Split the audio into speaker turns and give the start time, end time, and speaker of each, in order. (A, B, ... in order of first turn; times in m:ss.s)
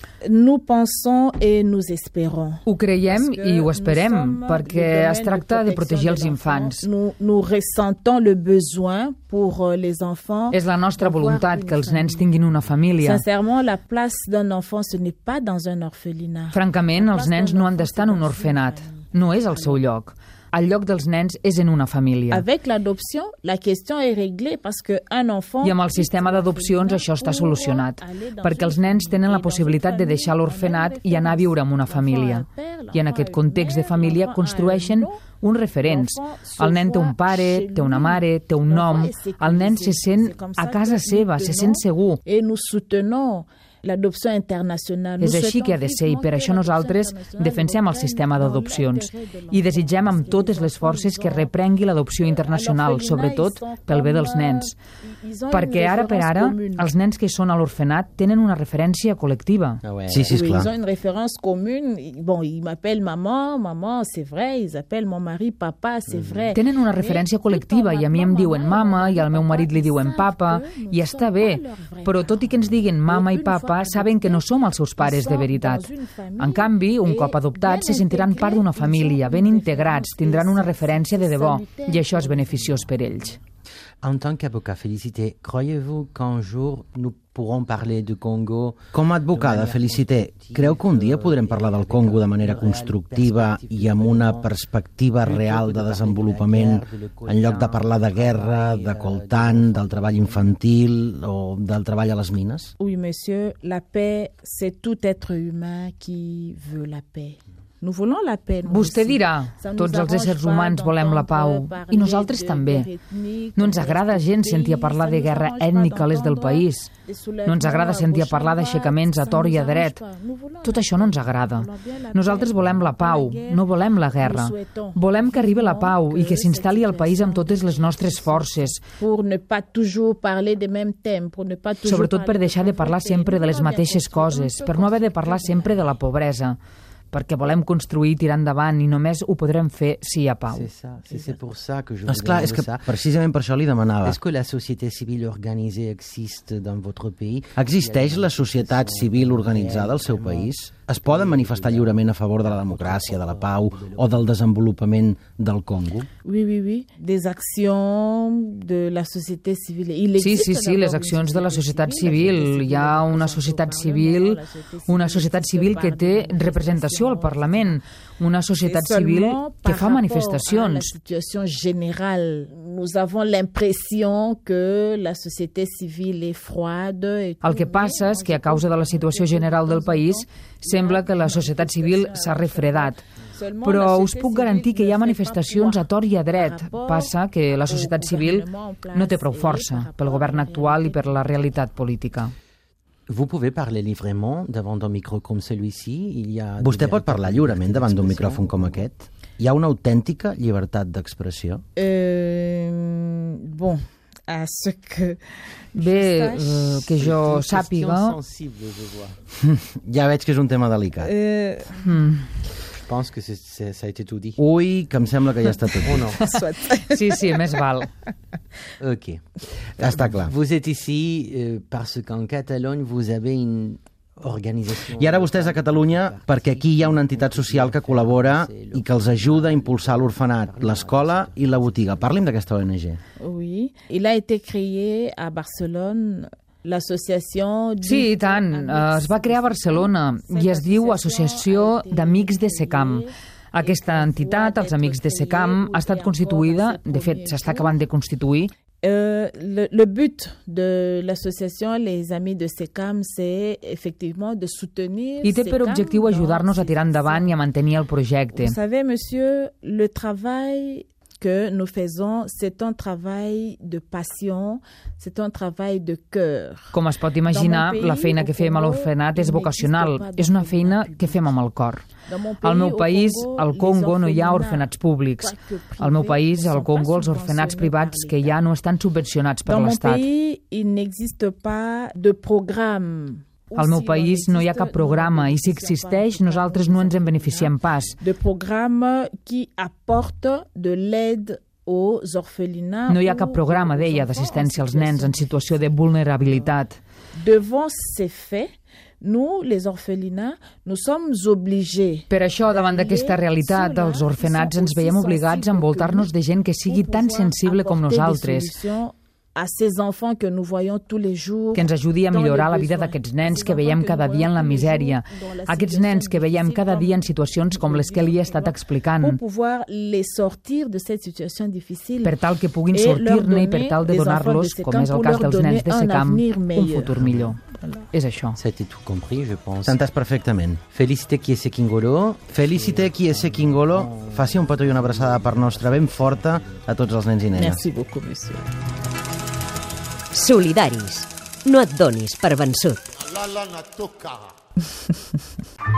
0:00.2-0:12.3 A
0:02.6-0:06.9 B
0:10.5-0:13.2 B
0:13.0-0:19.8 A
0:16.5-0:22.4 B
0:22.3-0:35.2 A
0:25.6-0:42.2 B
0:35.8-0:51.5 A
0:45.2-0:54.8 B
0:52.2-0:56.9 A
0:55.5-0:59.8 B
0:59.8-1:00.6 C
1:00.1-1:00.7 D
1:00.3-1:14.4 A
1:06.1-1:06.5 C
1:06.5-1:23.4 B
1:15.0-1:22.9 A
1:24.0-1:34.5 C
1:28.9-1:42.7 D
1:35.2-1:40.6 C
1:42.8-2:16.0 A
1:48.7-1:52.9 B
1:53.6-1:56.9 B
1:57.5-2:00.0 B
2:00.6-2:08.8 B
2:11.8-2:16.6 B
2:17.1-2:20.7 B
2:20.5-2:23.0 C
2:22.0-2:24.2 D
2:24.0-2:34.4 C
2:27.6-2:36.1 D
2:36.2-2:47.8 A
2:40.2-2:50.9 B
2:48.6-3:11.5 A
2:57.4-3:03.0 B
3:03.6-3:12.3 B
3:13.1-3:18.9 C
3:16.6-3:21.6 D
3:21.8-3:25.2 A
3:25.8-3:26.8 A
3:25.8-3:28.2 B
3:26.8-3:29.2 C
3:29.4-3:31.1 D
3:31.0-3:31.9 A
3:31.7-3:32.3 B
3:32.7-3:34.4 C
3:34.4-3:36.1 D
3:35.8-3:36.3 C
3:36.2-3:37.6 A
3:36.3-3:37.9 B
3:38.8-3:52.4 C
3:39.8-3:40.3 D
3:44.8-3:53.0 D
3:53.2-4:07.8 A
3:57.8-4:08.5 B
4:08.8-4:17.4 A
4:15.2-4:18.6 B
4:18.3-4:31.4 A
4:26.7-4:31.8 B
4:32.0-4:38.4 A
4:32.4-4:40.0 B
4:39.5-4:55.7 A
4:43.6-4:48.0 B
4:52.9-4:56.8 B
4:57.2-5:06.1 A
5:02.1-5:08.5 B
5:06.7-5:22.2 A
5:11.5-5:19.2 B
5:22.0-5:28.4 B
5:22.7-5:27.0 A
5:27.0-5:27.4 C
5:27.5-5:27.8 A
5:28.4-5:29.8 C
5:29.7-5:30.6 D
5:30.6-5:36.9 C
5:32.3-5:37.6 D
5:37.3-5:38.5 A
5:40.1-5:43.0 E